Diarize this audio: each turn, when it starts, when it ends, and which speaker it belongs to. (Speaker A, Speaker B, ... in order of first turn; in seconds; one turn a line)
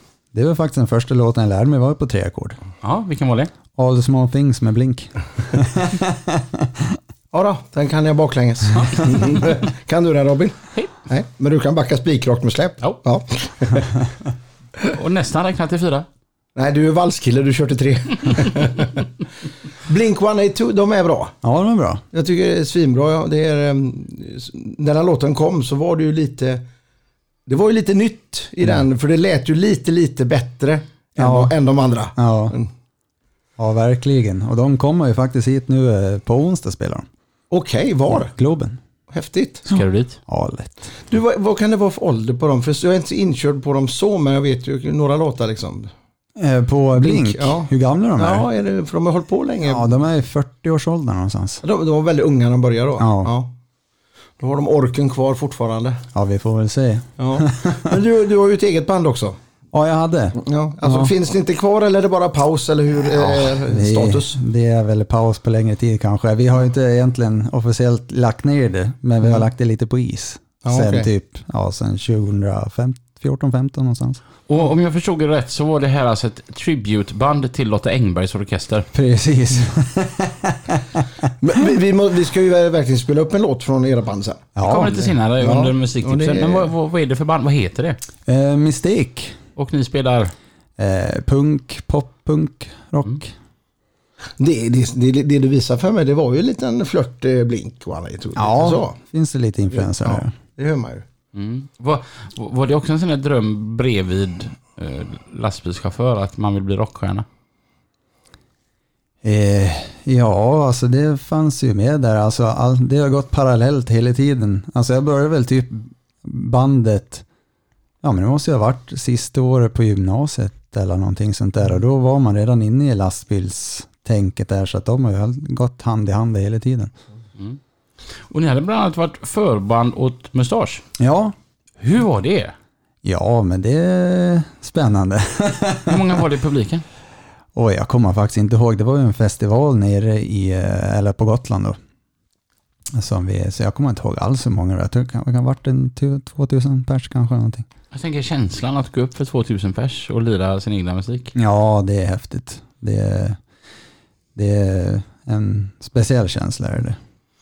Speaker A: 0.3-2.6
Speaker B: 2.8-3.5
Speaker A: 3.8-7.0
Speaker C: 7.3-13.9
Speaker B: 14.8-16.1
Speaker C: 16.6-19.1
Speaker C: 19.9-21.4
Speaker A: 21.4-22.0
Speaker C: 22.1-26.6
Speaker C: 27.5-32.7
Speaker A: 31.2-31.5
Speaker A: 32.2-32.6
Speaker A: 33.6-37.1
Speaker C: 37.5-38.3
Speaker A: 38.1-38.8
Speaker C: 39.1-39.7
Speaker B: 39.7-40.2
Speaker A: 39.8-40.9
Speaker C: 41.1-45.9
Speaker A: 46.4-48.5
Speaker C: 47.0-49.9
Speaker A: 49.6-51.6
Speaker C: 51.6-53.5
Speaker A: 53.0-53.3
Speaker C: 54.4-56.0
Speaker A: 56.1-58.0
Speaker C: 57.2-59.4
Speaker A: 59.7-61.1
Speaker C: 60.4-64.4
Speaker A: 63.0-74.2
Speaker C: 70.6-71.1
Speaker B: 74.5-78.9
Speaker A: 78.9-81.0
Speaker C: 81.4-84.6
Speaker A: 84.6-85.0
Speaker B: 84.6-88.0
Speaker C: 85.4-86.7
Speaker A: 88.3-89.4
Speaker B: 89.6-90.3
Speaker A: 90.8-93.3
Speaker C: 94.4-99.0
Speaker A: 98.4-100.3
Speaker C: 99.7-101.0
Speaker B: 101.3-107.3
Speaker A: 109.2-117.2
Speaker A: 118.0-126.9
Speaker B: 128.3-130.8
Speaker A: 131.0-131.3
Speaker B: 131.8-132.5
Speaker A: 133.0-136.2
Speaker B: 135.9-136.8
Speaker A: 137.6-141.8
Speaker A: 142.9-147.7
Speaker B: 147.9-151.3
Speaker A: 151.3-153.4
Speaker A: 154.3-157.0